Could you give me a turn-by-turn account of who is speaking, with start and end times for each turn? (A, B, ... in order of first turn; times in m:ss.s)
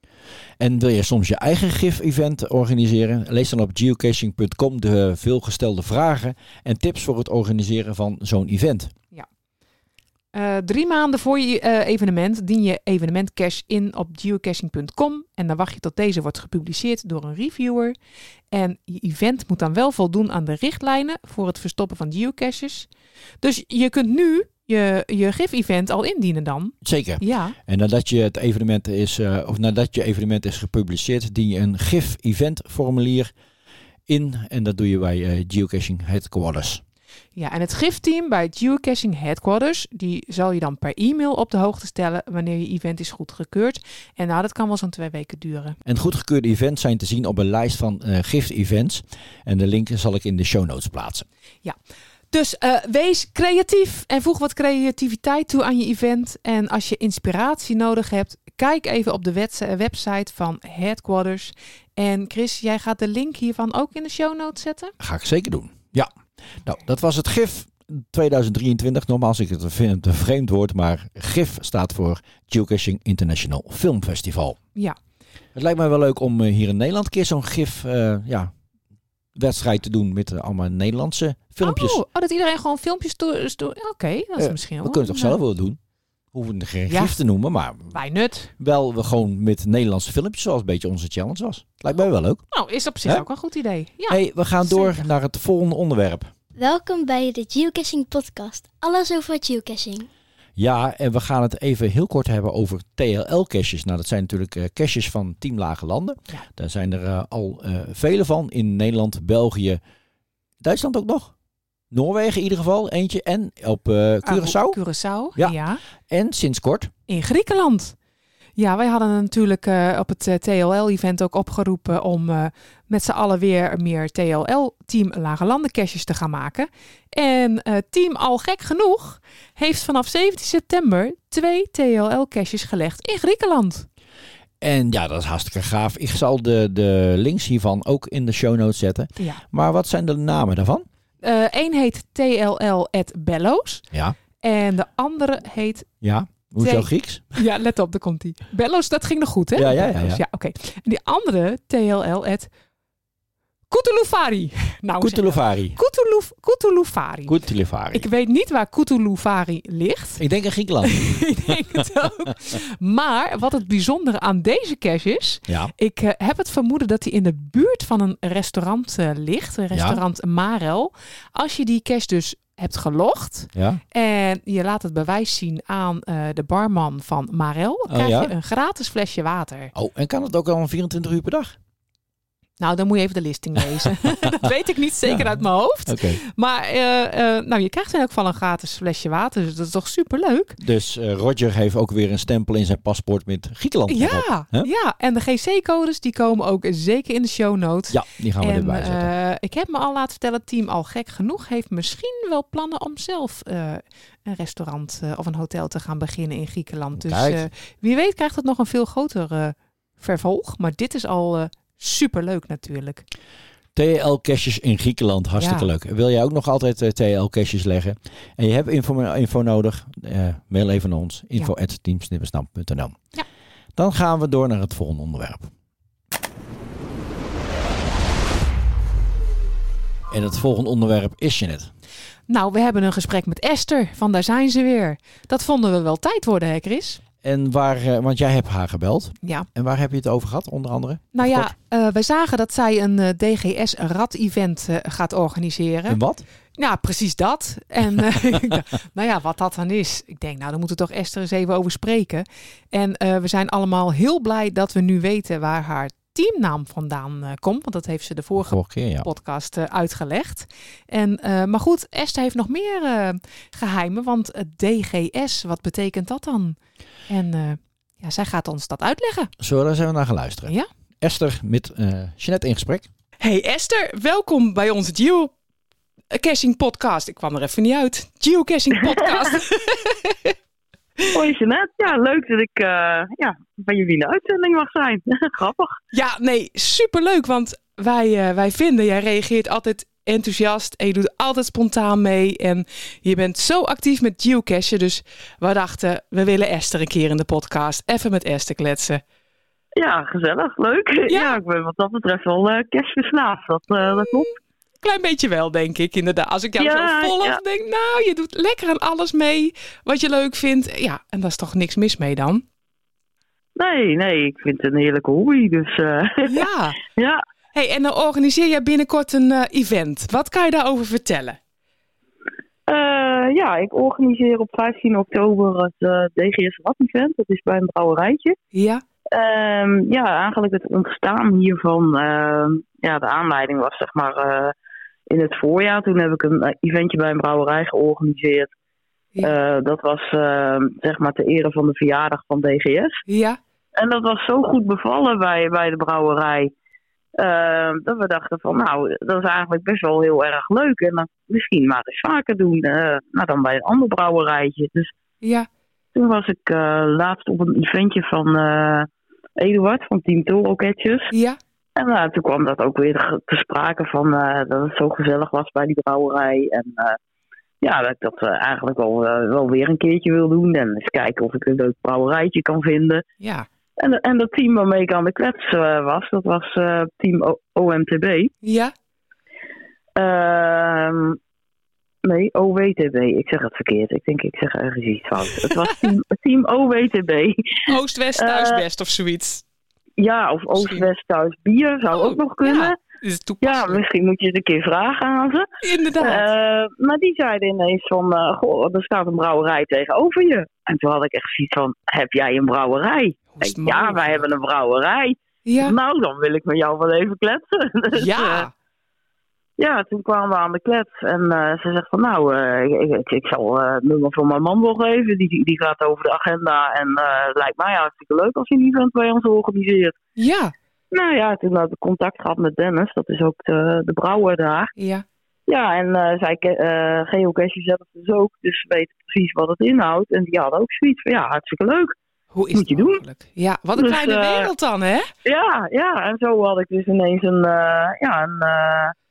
0:00.6-0:08.9 A
0:10.3-0:18.0 B
0:18.5-0:22.9 B
0:23.4-0:27.5 B
0:26.8-0:33.3 A
0:34.1-0:36.8 A
0:37.4-0:45.8 B
0:45.8-0:51.3 A
0:52.3-1:04.9 B
1:05.0-1:06.1 A
1:06.6-1:14.6 A
1:15.5-1:18.5 A
1:19.3-1:22.0 A
1:21.6-1:25.4 B
1:24.4-1:25.8 A
1:26.3-1:28.0 A
1:26.9-1:27.2 B
1:27.9-1:28.5 B
1:28.6-1:32.4 A
1:32.5-1:35.1 B
1:34.1-1:36.3 A
1:36.6-1:40.1 C
1:40.6-1:49.8 A
1:50.6-1:51.3 A
1:51.9-1:54.8 A
1:54.2-1:55.8 B
1:56.1-1:56.9 A
1:57.1-1:57.9 B
1:58.6-2:13.8 B
2:14.6-2:20.8 A
2:21.2-2:23.8 B
2:24.4-2:25.9 B
2:26.0-2:27.4 A
2:26.6-2:32.5 B
2:29.5-2:30.2 A
2:33.7-2:37.3 B
2:35.0-2:35.8 A
2:37.3-2:38.1 A
2:37.9-2:40.2 B
2:40.2-2:41.6 A
2:40.9-2:59.7 B
2:45.5-2:45.7 A
2:49.7-2:50.0 A
2:53.5-2:53.8 A
2:57.9-2:58.3 A
2:59.7-3:01.6 A
3:02.6-3:10.6 B
3:03.8-3:04.3 A
3:05.0-3:06.2 A
3:10.6-3:14.7 A
3:13.9-3:33.0 B
3:17.9-3:19.1 A
3:26.9-3:27.5 A
3:33.7-3:43.0 A
3:35.4-3:35.7 B
3:43.8-3:45.5 A
3:50.1-3:51.7 A
3:52.3-3:57.0 B
3:57.2-4:01.5 A
4:01.1-4:06.0 B
4:05.9-4:06.2 A
4:06.6-4:26.6 B
4:18.4-4:19.1 A
4:27.1-4:29.3 B
4:29.4-4:32.9 A
4:33.2-4:35.3 B
4:36.1-4:40.3 B
4:41.1-4:45.7 D
4:45.9-4:59.0 B
4:59.8-5:04.3 D
5:01.1-5:01.4 B
5:04.8-5:12.4 B
5:06.6-5:07.4 D
5:13.6-5:17.2 D
5:16.2-5:16.8 B
5:17.5-5:21.4 B
5:22.7-5:28.4 D
5:28.5-5:28.8 B
5:29.1-5:34.5 D
5:35.1-5:38.5 D
5:39.2-5:43.0 D
5:43.1-5:43.4 B
5:43.8-5:46.5 D
5:47.2-5:54.9 D
5:55.2-5:55.5 B
5:55.9-6:01.1 D
6:01.1-6:01.4 B
6:01.8-6:07.0 D
6:07.6-6:13.0 D
6:13.2-6:13.5 B
6:13.8-6:18.3 D
6:18.4-6:18.7 B
6:20.0-6:21.2 D
6:22.0-6:27.4 D
6:25.5-6:25.9 B
6:27.7-6:29.4 B
6:28.2-6:28.6 D
6:30.0-6:32.8 D
6:30.5-6:30.8 B
6:31.9-6:33.8 B
6:33.4-6:35.5 D
6:35.6-6:36.2 B
6:36.0-6:48.5 D
6:43.3-6:44.3 B
6:45.4-6:45.7 B
6:47.9-6:48.5 B
6:49.6-7:00.0 D
7:00.2-7:00.5 B
7:00.9-7:04.7 D
7:04.8-7:05.0 B
7:05.5-7:11.9 D
7:12.3-7:15.1 B
7:12.6-7:13.0 D
7:13.8-7:14.5 D
7:15.2-7:18.9 D